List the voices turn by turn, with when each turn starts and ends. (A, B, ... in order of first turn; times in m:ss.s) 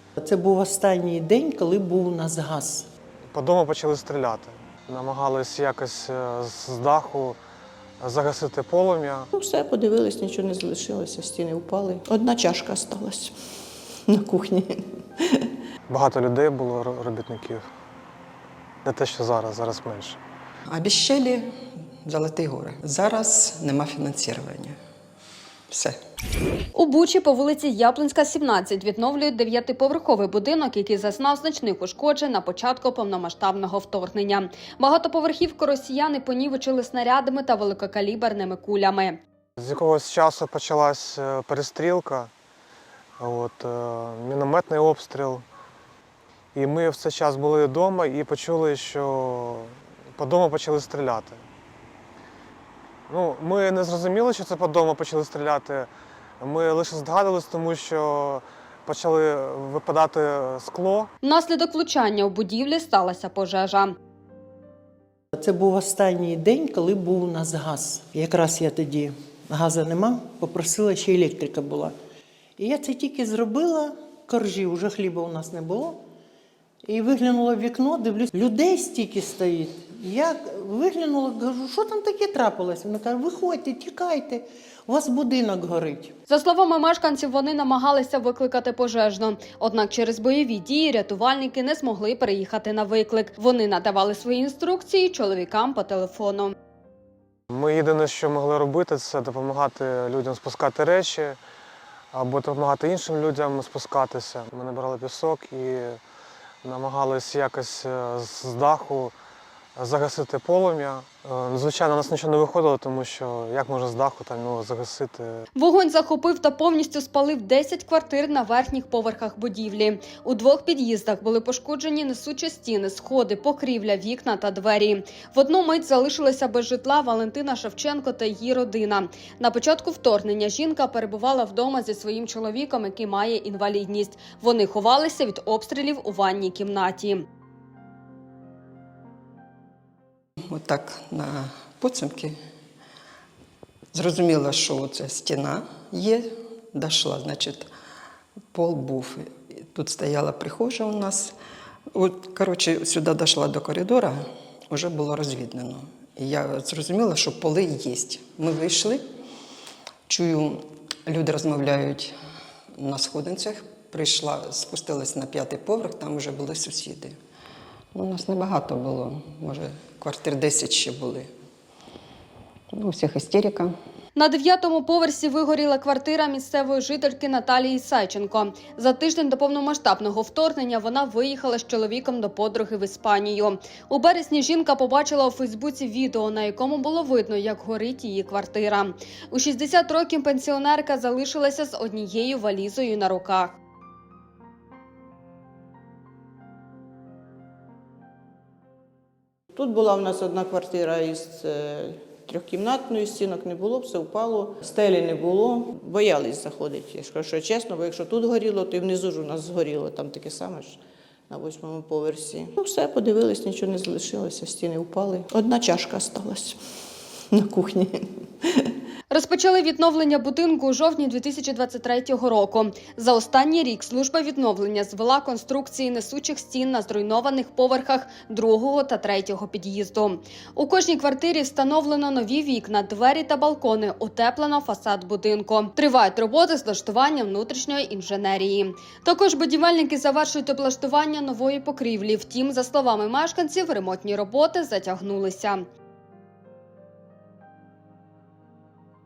0:00.2-0:02.9 A
0:03.3-0:07.4 B
0:08.0-0:09.3 B
0:09.3-0:13.3 C
0:14.1-0:15.4 C
0:15.9-0:17.6 B
0:18.8-0:20.2 B
0:20.7-0:21.5 D
0:22.0-0:24.8 D
0:25.7-0:26.0 D
0:26.7-0:39.2 E
0:39.6-0:42.3 B
0:43.2-0:45.4 B
0:46.5-0:51.4 B
0:53.1-0:55.9 B
0:56.4-1:01.1 B
1:01.2-1:03.9 E
1:05.3-1:11.9 A
1:12.6-1:16.0 A
1:16.8-1:26.1 A
1:26.3-1:36.5 E
1:37.5-1:41.4 B
1:42.1-1:46.0 B
1:46.6-1:49.1 B
1:49.8-1:55.4 B
1:55.6-2:17.2 E
2:20.5-2:22.4 D
2:23.9-2:27.7 D
2:28.5-2:31.3 D
2:31.9-2:39.0 D
2:40.1-2:42.1 D
2:42.8-2:47.1 D
2:47.9-2:51.3 D
2:52.7-2:53.7 D
2:54.2-3:13.6 E
3:19.5-3:30.8 C
3:31.3-3:36.6 C
3:37.3-3:38.7 C
3:39.1-4:05.6 E